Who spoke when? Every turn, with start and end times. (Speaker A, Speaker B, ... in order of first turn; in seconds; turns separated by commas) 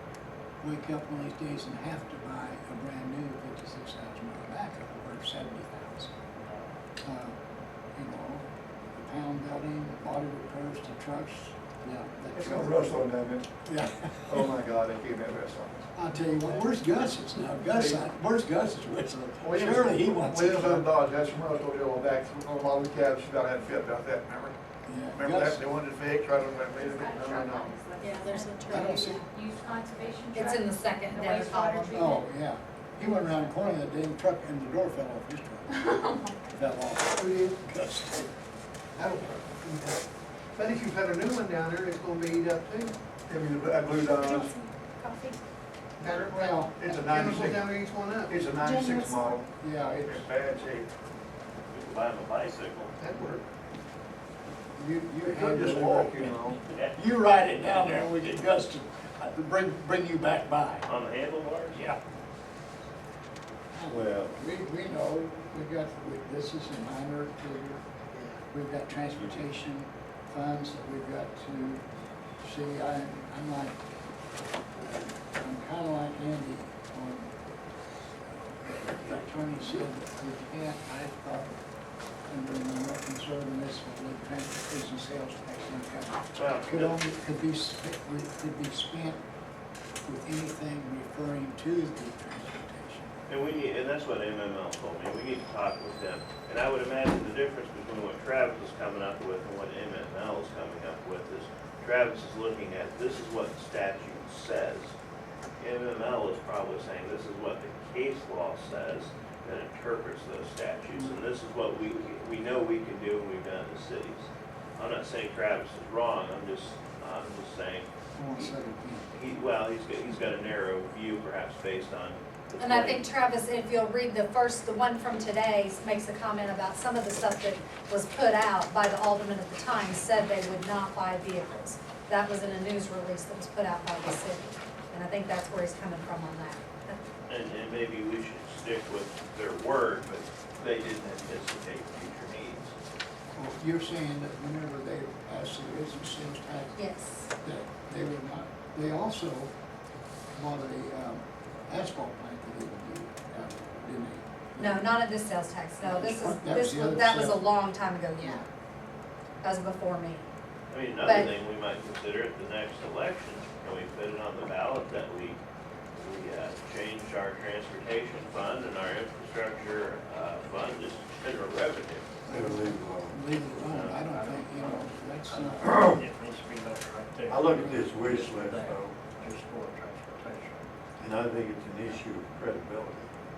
Speaker A: 0.6-6.2, Speaker A: 7.0-7.4, Speaker A: 8.0-13.1, Speaker B: 12.3-13.5, Speaker A: 13.6-14.4, Speaker B: 14.2-15.9, Speaker A: 15.9-20.9, Speaker B: 17.7-18.0, Speaker B: 19.4-24.6, Speaker A: 24.9-25.6, Speaker B: 25.1-27.8, Speaker C: 26.7-32.2, Speaker D: 28.0-29.2, Speaker A: 28.7-29.2, Speaker D: 30.3-32.1, Speaker A: 31.9-38.3, Speaker C: 35.9-36.3, Speaker B: 37.2-37.5, Speaker A: 39.0-40.0, Speaker B: 40.5-44.5, Speaker C: 44.2-45.4, Speaker B: 46.0-49.5, Speaker A: 46.0-47.7, Speaker D: 48.6-49.1, Speaker C: 48.7-49.4, Speaker A: 49.5-50.3, Speaker B: 50.0-50.9, Speaker E: 51.7-52.9, Speaker B: 53.0-53.5, Speaker A: 54.8-60.9, Speaker B: 55.2-56.6, Speaker E: 60.9-61.9, Speaker A: 63.7-67.8, Speaker F: 63.9-64.4, Speaker A: 68.5-71.8, Speaker A: 72.4-73.8, Speaker A: 74.8-77.3, Speaker A: 78.6-81.5, Speaker A: 82.3-89.2, Speaker E: 86.3-87.0, Speaker A: 90.0-93.1, Speaker E: 93.3-104.9, Speaker E: 105.6-118.6, Speaker A: 118.2-119.1, Speaker E: 119.1-123.1, Speaker D: 122.6-137.0, Speaker E: 137.3-142.7, Speaker A: 143.3-146.8, Speaker D: 146.8-147.3, Speaker A: 147.4-149.5, Speaker A: 150.3-154.9, Speaker D: 154.6-158.4, Speaker A: 155.8-157.4, Speaker D: 159.4-160.2, Speaker E: 160.7-165.4, Speaker D: 161.0-161.3, Speaker E: 166.0-172.1, Speaker A: 172.3-175.9, Speaker F: 172.3-173.2, Speaker E: 173.7-174.1, Speaker G: 174.1-180.6, Speaker F: 175.6-176.0, Speaker F: 177.3-179.0, Speaker F: 181.0-183.1